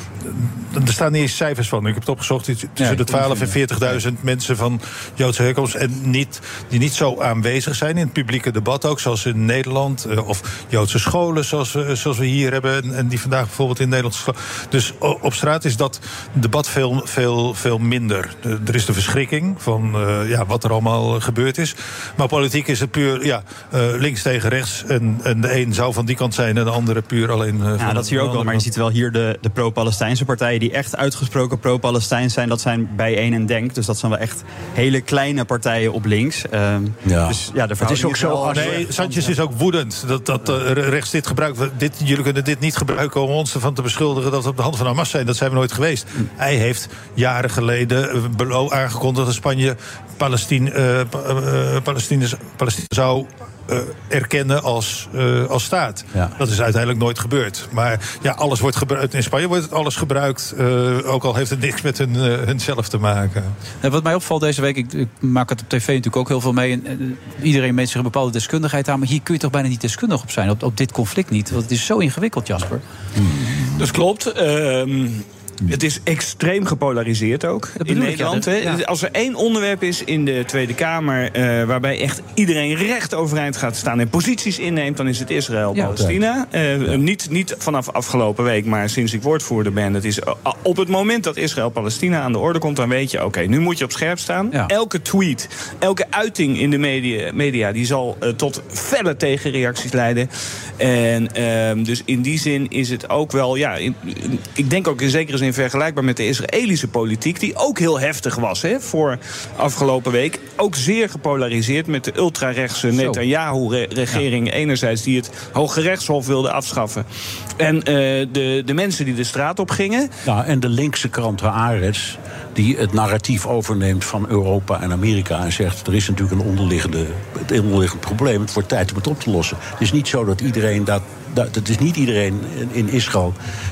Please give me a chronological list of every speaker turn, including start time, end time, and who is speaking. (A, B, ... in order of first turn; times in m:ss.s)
0:00.2-0:28.7 A
0:02.8-0:04.0 B
0:27.8-0:39.3 C
0:37.0-0:39.0 D
0:38.5-1:03.5 A
1:03.8-1:12.8 B
1:13.2-1:13.5 D
1:13.8-1:57.0 E
1:17.8-1:18.8 B
1:25.9-1:26.2 D
1:52.9-1:53.2 B
1:57.6-2:00.1 E
2:00.2-2:13.3 D